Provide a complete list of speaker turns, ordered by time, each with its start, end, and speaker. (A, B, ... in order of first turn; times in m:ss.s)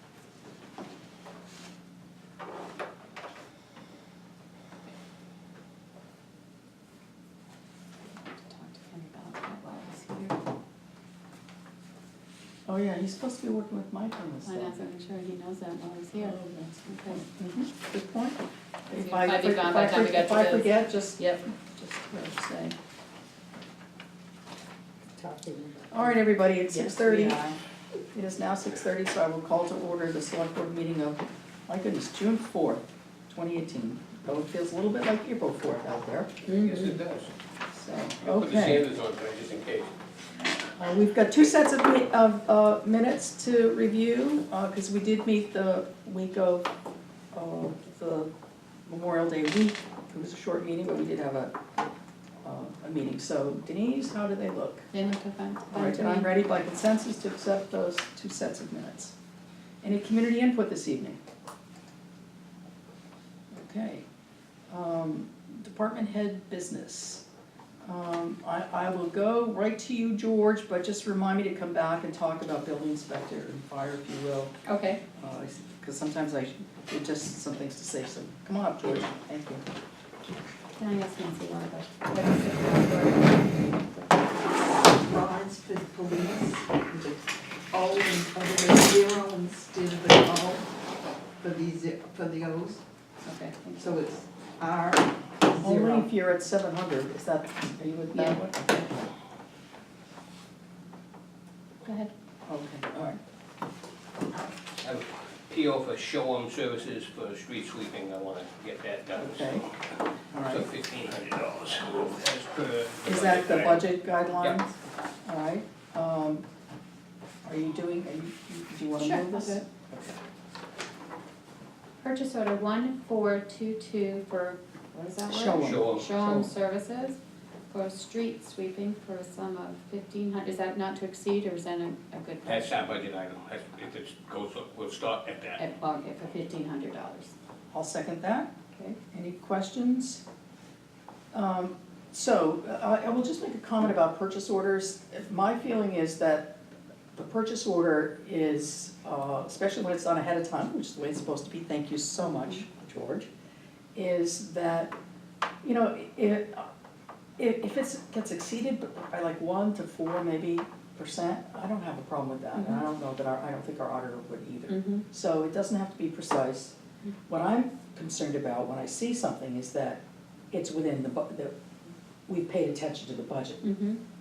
0:08.1-0:10.4 A
0:12.7-0:14.8 B
0:14.4-0:17.2 A
0:16.2-0:22.8 B
0:18.9-0:21.4 A
0:25.2-0:26.1 C
0:25.9-0:27.5 B
0:26.8-0:27.6 C
0:28.1-0:36.3 B
0:36.4-0:37.3 D
0:36.5-0:36.9 A
0:37.7-0:38.8 B
0:38.2-0:40.0 D
0:40.8-0:46.7 B
0:47.3-0:48.3 B
0:48.9-0:51.5 B
0:52.4-0:54.9 B
0:54.9-0:56.3 A
0:55.7-0:59.1 B
0:59.8-1:01.2 B
1:03.5-1:04.0 B
1:04.7-1:07.2 B
1:07.8-1:14.5 B
1:14.6-1:15.0 A
1:15.2-1:19.6 B
1:20.8-1:24.4 A
1:24.7-1:30.7 C
1:31.4-1:32.8 C
1:33.2-1:34.0 A
1:33.8-1:36.1 C
1:35.6-1:39.1 B
1:38.1-1:38.4 A
1:41.8-1:42.1 A
1:42.5-1:43.2 B
1:44.8-1:49.9 D
1:49.2-1:49.7 B
1:50.3-1:50.6 B
1:50.4-1:53.8 D
1:53.0-1:54.7 B
1:55.2-1:56.4 B
1:57.4-2:00.2 B
1:59.0-1:59.6 A
2:02.0-2:07.2 A
2:05.3-2:06.5 B
2:05.6-2:06.1 D
2:07.7-2:12.7 A
2:12.4-2:15.6 D
2:15.6-2:17.3 A
2:17.7-2:18.5 B
2:19.1-2:20.2 B
2:21.3-2:26.6 B
2:27.1-2:33.3 B
2:34.0-2:35.0 B
2:35.6-2:36.7 B
2:37.4-2:46.8 B
2:42.6-2:42.8 A
2:44.7-2:45.0 A
2:47.3-2:50.0 B
2:50.5-2:51.5 B
2:52.3-2:53.7 B
2:53.6-2:54.0 A